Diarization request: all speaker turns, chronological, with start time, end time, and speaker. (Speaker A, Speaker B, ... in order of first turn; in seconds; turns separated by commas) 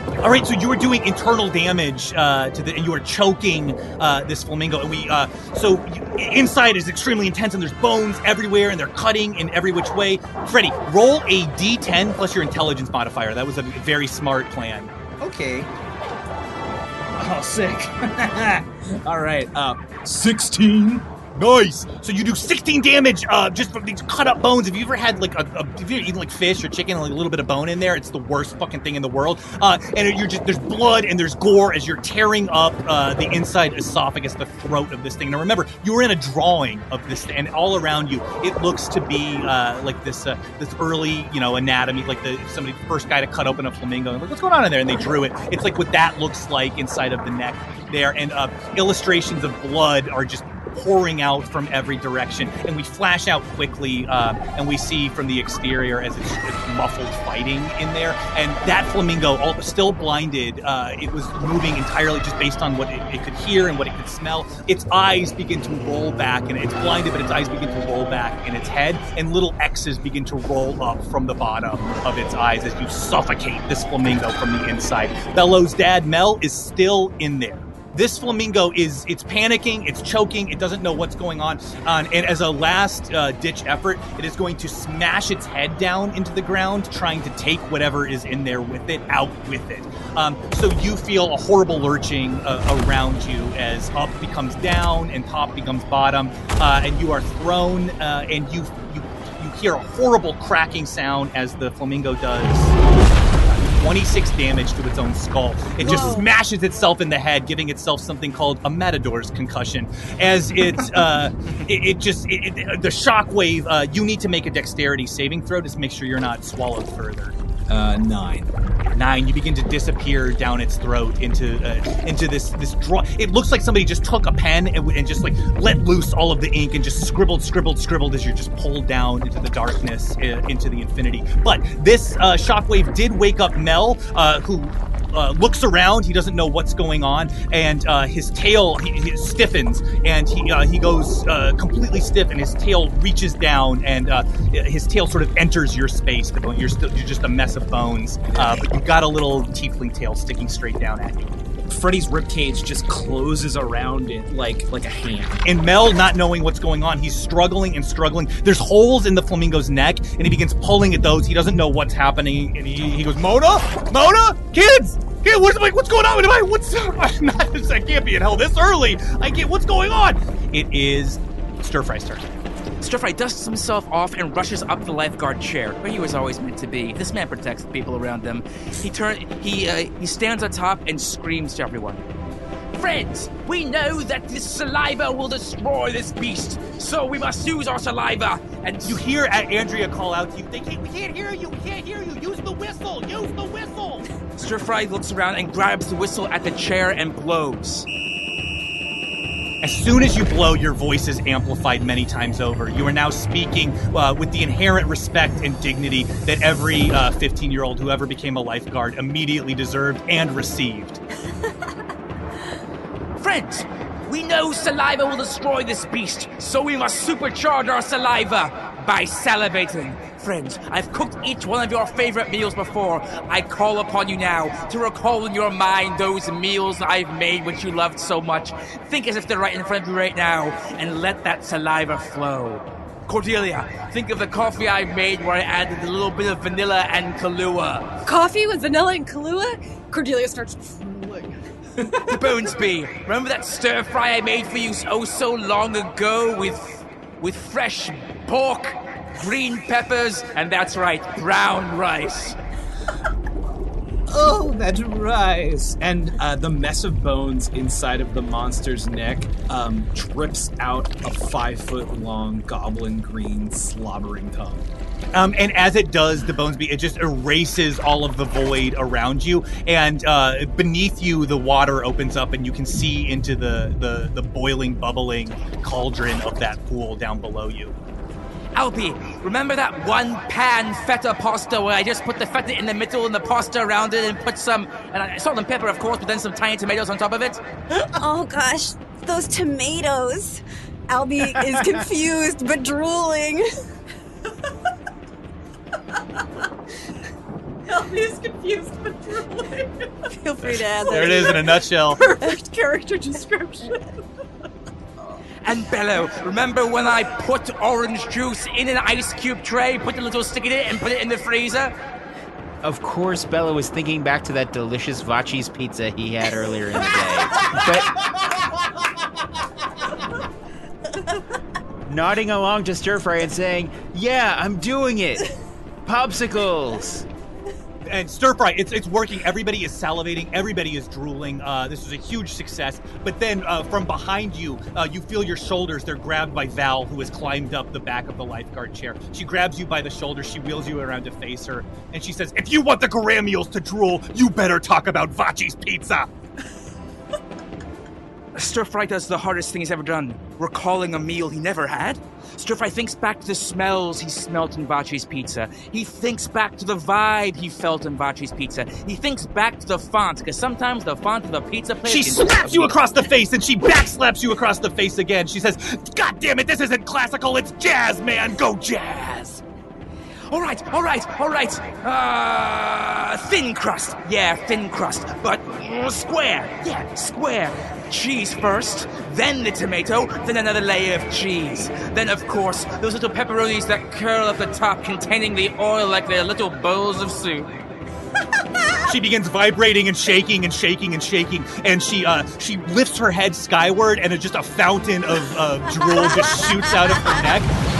Speaker A: 0.2-14.9, Speaker B: 15.2-15.7, Speaker B: 17.1-21.1, Speaker A: 21.3-102.8, Speaker A: 103.5-117.3, Speaker C: 105.8-106.2, Speaker B: 105.8-106.1, Speaker B: 117.7-118.5, Speaker A: 118.9-151.3, Speaker B: 148.3-148.6, Speaker B: 151.7-155.4, Speaker A: 155.4-172.4, Speaker D: 172.8-182.1, Speaker D: 182.8-189.0, Speaker A: 188.8-194.1, Speaker D: 194.3-197.9, Speaker A: 199.6-211.0, Speaker D: 213.2-237.9, Speaker E: 238.1-242.0, Speaker D: 242.1-252.4, Speaker B: 254.1-264.7, Speaker A: 265.1-277.7, Speaker D: 278.5-287.4, Speaker C: 288.0-293.4, Speaker E: 297.7-303.8, Speaker C: 300.4-301.4, Speaker A: 300.9-302.0, Speaker D: 305.4-311.7, Speaker F: 312.6-318.0, Speaker F: 321.9-325.2, Speaker F: 325.9-327.1, Speaker A: 327.9-346.1, Speaker D: 348.3-362.7, Speaker A: 361.8-369.4, Speaker D: 370.3-387.6, Speaker A: 388.8-397.5